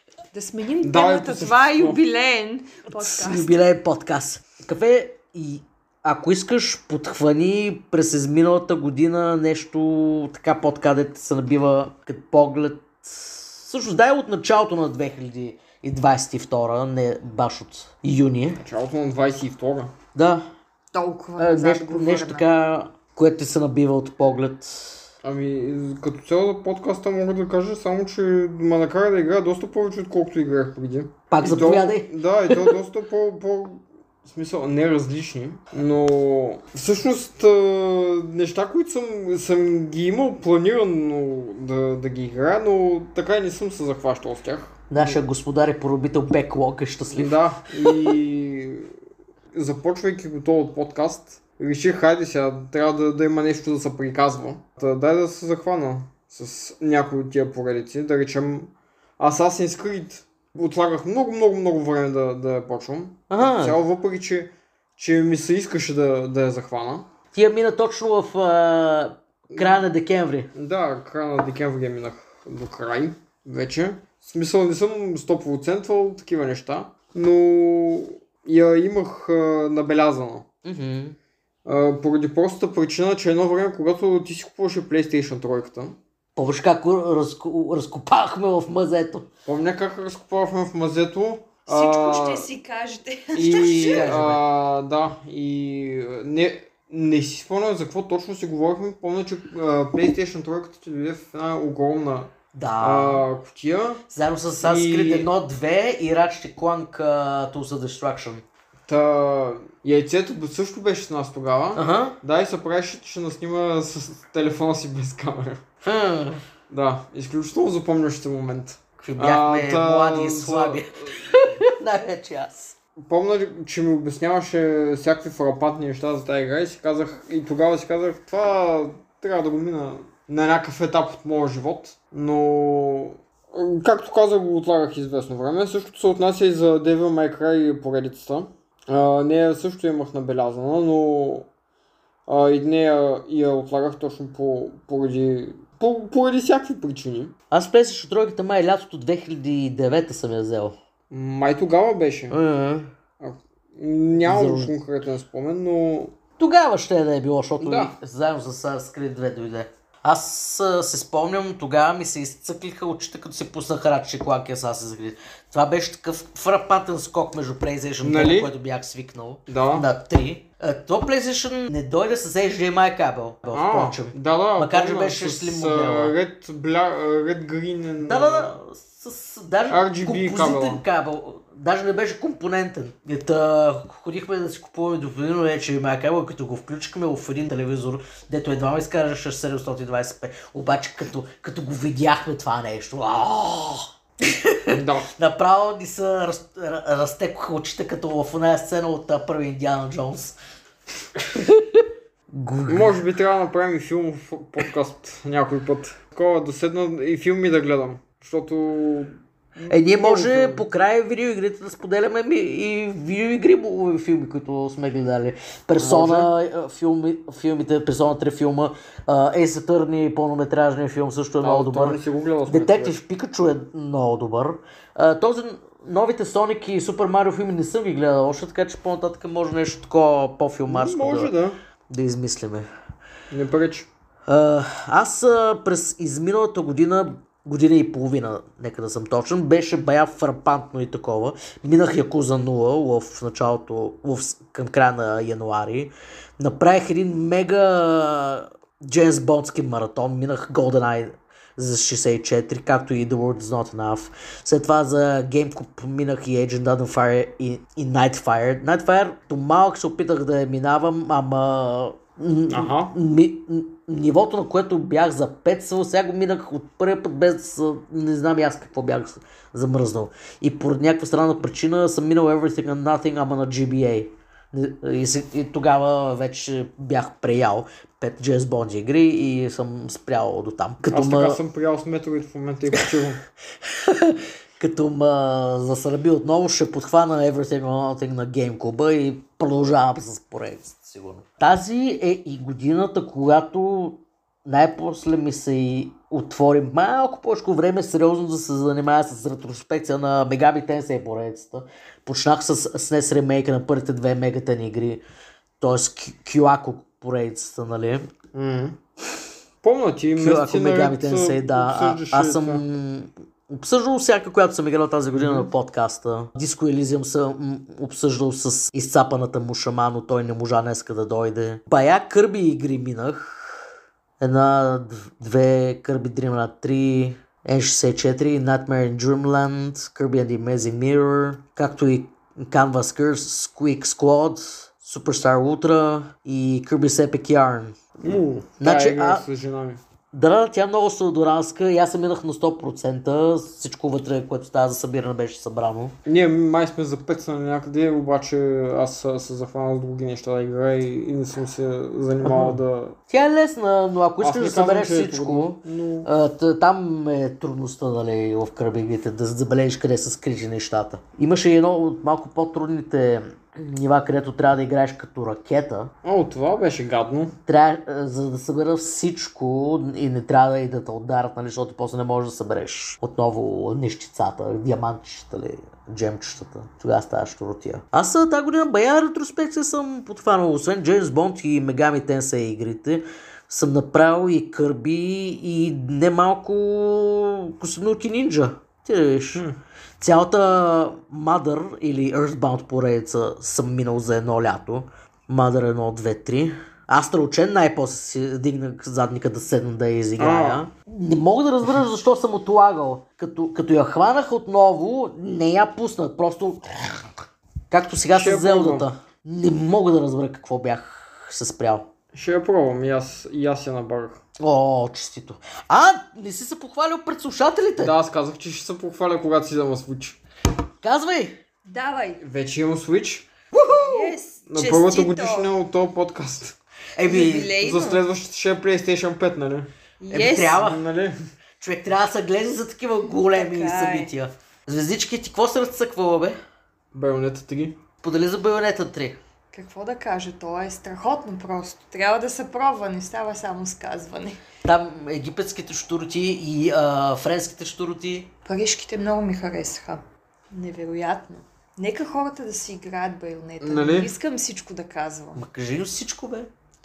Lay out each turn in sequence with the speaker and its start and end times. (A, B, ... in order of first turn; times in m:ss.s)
0:00.3-0:03.6 A
0:00.8-0:02.0 B
0:02.9-0:18.6 C
0:18.6-0:19.9 B
0:20.1-0:20.4 C
0:20.9-0:22.5 A
0:21.4-0:25.0 C
0:25.2-0:45.2 B
0:31.3-0:32.8 C
0:44.9-0:48.1 C
0:47.1-0:48.9 B
0:49.5-1:07.1 B
1:03.3-1:03.8 C
1:07.3-1:10.5 C
1:09.5-1:09.8 B
1:10.5-1:20.4 B
1:20.6-1:21.2 C
1:21.6-1:26.0 B
1:26.4-1:29.3 C
1:29.4-1:32.5 B
1:31.7-1:34.2 A
1:33.3-1:44.0 B
1:33.8-1:34.4 C
1:42.5-1:43.2 C
1:44.1-1:48.4 C
1:44.6-1:45.3 B
1:48.9-1:55.6 B
1:51.7-1:52.2 C
1:55.8-1:56.4 C
1:56.7-2:01.2 B
1:59.0-2:02.8 C
2:03.0-2:21.5 B
2:22.3-2:27.3 B
2:27.5-2:30.8 C
2:31.1-2:32.4 B
2:32.3-2:32.9 C
2:33.2-2:36.1 B
2:34.2-2:34.7 C
2:36.4-2:56.1 C
2:37.6-2:37.9 B
2:48.0-2:48.5 B
2:49.5-2:49.9 B
2:53.5-2:58.6 B
2:58.0-3:20.4 C
2:59.7-3:00.8 B
3:14.7-3:15.1 B
3:21.2-3:23.0 C
3:22.7-3:30.6 B
3:29.7-3:51.3 C
3:35.8-3:36.3 B
3:41.4-3:43.0 B
3:50.7-3:51.6 B
3:51.9-3:52.7 C
3:53.3-3:53.9 B
3:54.3-4:41.4 C
4:22.5-4:22.9 B
4:40.9-4:43.2 B
4:43.6-5:05.0 C
5:05.6-5:08.1 C
5:08.3-5:08.8 B
5:09.6-5:12.6 B
5:10.2-5:23.6 C
5:15.1-5:15.5 B
5:24.2-5:37.8 C
5:38.0-5:39.8 B
5:38.6-5:39.2 C
5:40.1-5:45.9 C
5:46.0-5:53.0 B
5:52.2-6:05.9 C
5:54.2-5:56.1 B
6:06.0-6:07.3 B
6:07.4-6:29.4 C
6:30.0-6:47.1 C
6:40.2-6:40.6 B
6:47.7-6:51.9 C
6:48.1-6:48.9 B
6:52.1-6:54.2 B
6:54.4-6:57.9 C
6:57.8-7:00.2 B
7:00.8-7:01.4 C
7:01.7-7:02.2 A
7:02.2-7:03.3 B
7:03.5-7:04.2 C
7:03.6-7:05.5 A
7:04.5-7:06.6 B
7:07.0-7:07.6 C
7:07.0-7:08.0 A
7:07.6-7:09.7 B
7:10.0-7:10.6 A
7:10.1-7:10.8 C
7:10.5-7:11.2 B
7:11.6-7:16.4 C
7:13.2-7:14.1 A
7:16.9-7:17.8 B
7:18.0-7:19.2 C
7:19.5-7:24.4 A
7:24.6-7:28.3 C
7:28.4-7:35.4 A
7:33.6-7:34.1 B
7:35.3-7:36.5 C